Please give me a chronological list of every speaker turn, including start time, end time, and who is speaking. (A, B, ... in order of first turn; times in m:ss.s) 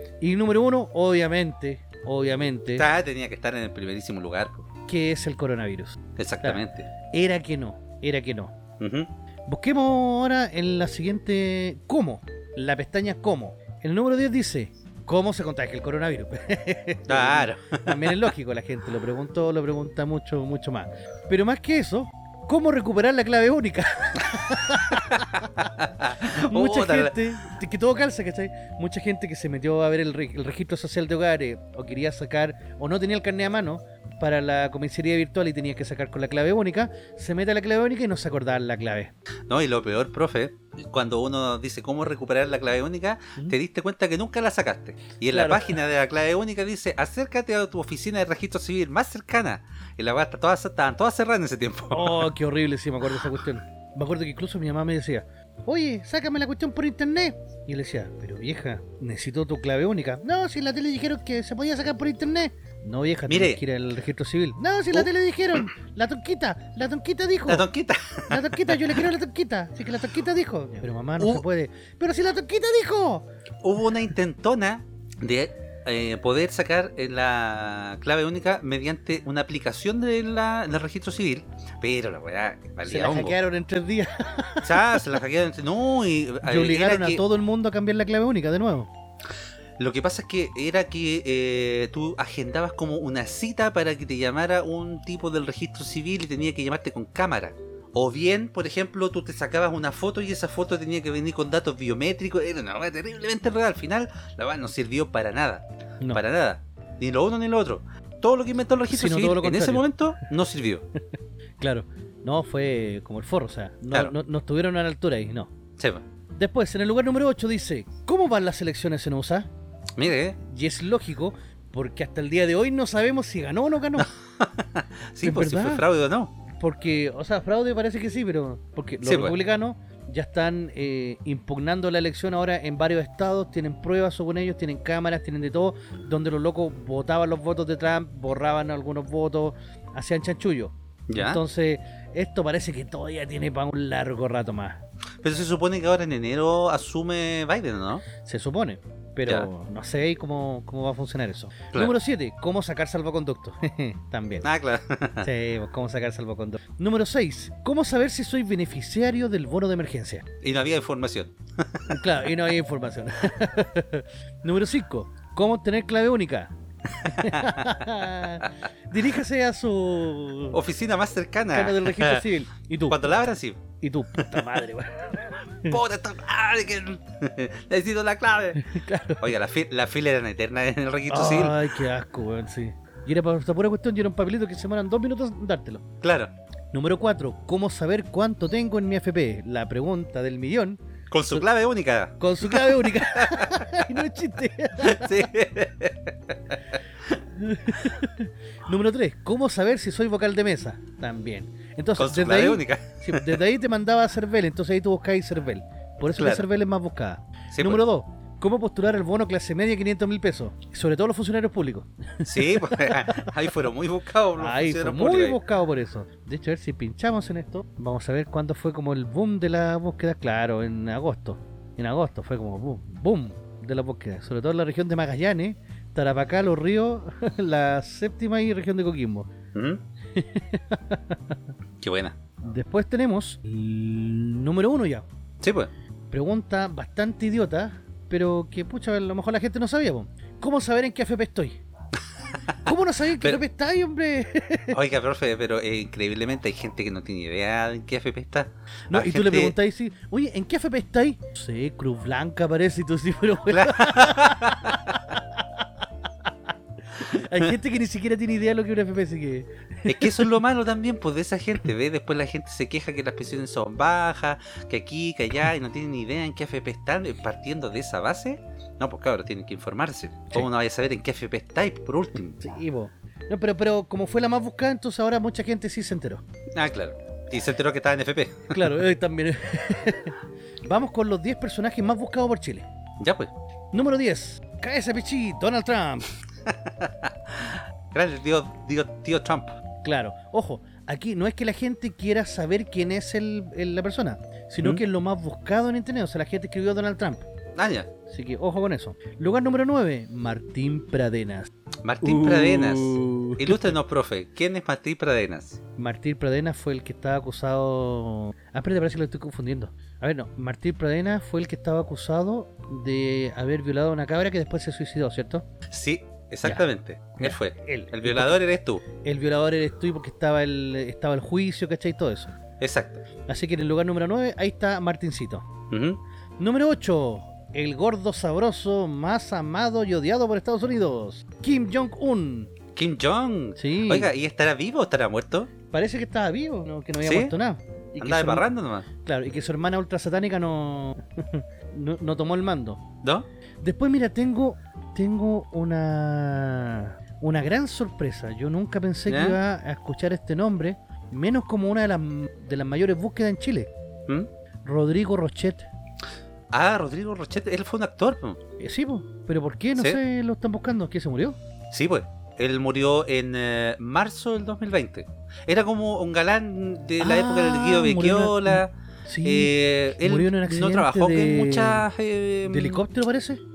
0:00.2-0:02.9 A
0:02.7-0:04.7 B
0:04.9-0:08.6 A
0:06.2-0:06.9 B
0:08.8-0:09.1 B
0:09.4-0:25.7 A
0:17.1-0:18.2 B
0:24.9-0:27.1 B
0:26.2-0:39.1 A
0:39.5-0:52.3 B
0:45.3-0:45.8 A
0:51.9-1:07.7 A
1:03.3-1:03.6 B
1:07.5-1:09.0 B
1:08.3-1:13.3 A
1:13.6-1:23.4 B
1:22.9-1:25.2 A
1:24.6-1:27.2 B
1:26.4-1:28.9 A
1:29.8-1:50.8 B
1:48.9-1:49.8 A
1:51.6-1:55.5 A
1:55.8-1:56.0 B
1:56.3-1:59.5 A
2:00.0-2:00.4 B
2:00.4-2:04.1 A
2:04.0-2:06.3 B
2:05.2-2:05.9 A
2:06.5-2:24.8 A
2:09.0-2:09.3 B
2:21.1-2:21.4 B
2:25.2-2:28.0 B
2:28.2-2:34.5 A
2:34.4-2:35.3 B
2:35.2-2:40.3 A
2:40.4-2:42.0 B
2:41.9-2:50.6 A
2:46.9-2:47.7 B
2:50.5-2:52.2 B
2:51.5-2:53.1 A
2:52.9-2:53.6 B
2:53.8-2:55.8 A
2:54.2-2:54.5 B
2:55.6-3:01.7 B
2:58.6-2:59.2 A
3:01.1-3:05.9 A
3:06.0-3:06.3 B
3:06.7-3:10.8 A
3:11.1-3:13.7 B
3:12.2-3:15.3 A
3:14.8-3:16.8 B
3:17.3-3:33.4 A
3:22.0-3:23.4 B
3:26.1-3:26.4 B
3:27.5-3:27.8 B
3:32.2-3:35.4 B
3:34.4-3:49.3 A
3:49.5-3:49.8 B
3:50.1-3:51.4 A
3:51.8-3:52.2 B
3:52.4-3:55.1 A
3:55.4-3:55.7 B
3:56.1-4:01.6 A
4:02.6-4:04.8 A
4:04.7-4:09.5 B
4:08.9-4:15.7 A
4:13.5-4:15.2 B
4:16.9-4:20.3 A
4:19.8-4:32.4 B
4:32.4-4:36.2 A
4:36.5-4:38.6 B
4:38.5-4:42.6 A
4:43.0-4:43.3 B
4:43.7-4:46.1 A
4:46.5-4:49.6 B
4:49.8-4:57.3 A
4:57.6-4:57.9 B
4:58.1-5:01.5 A
5:01.8-5:05.6 B
5:02.0-5:03.7 A
5:05.8-5:15.4 A
5:15.7-5:18.8 B
5:17.2-5:18.4 A
5:18.9-5:22.3 A
5:22.6-5:23.0 B
5:23.3-5:25.5 A
5:25.7-5:26.0 B
5:26.4-5:32.5 A
5:32.7-5:35.5 B
5:33.6-5:34.1 A
5:35.7-5:38.4 A
5:37.0-5:37.3 B
5:38.0-5:38.9 B
5:39.0-5:42.8 A
5:43.6-5:53.7 A
5:49.1-5:49.4 B
5:54.6-5:55.7 A
5:56.5-5:58.4 B
5:58.6-6:01.4 A
6:01.7-6:08.7 B
6:07.0-6:11.9 A
6:09.2-6:12.8 B
6:12.4-6:13.4 A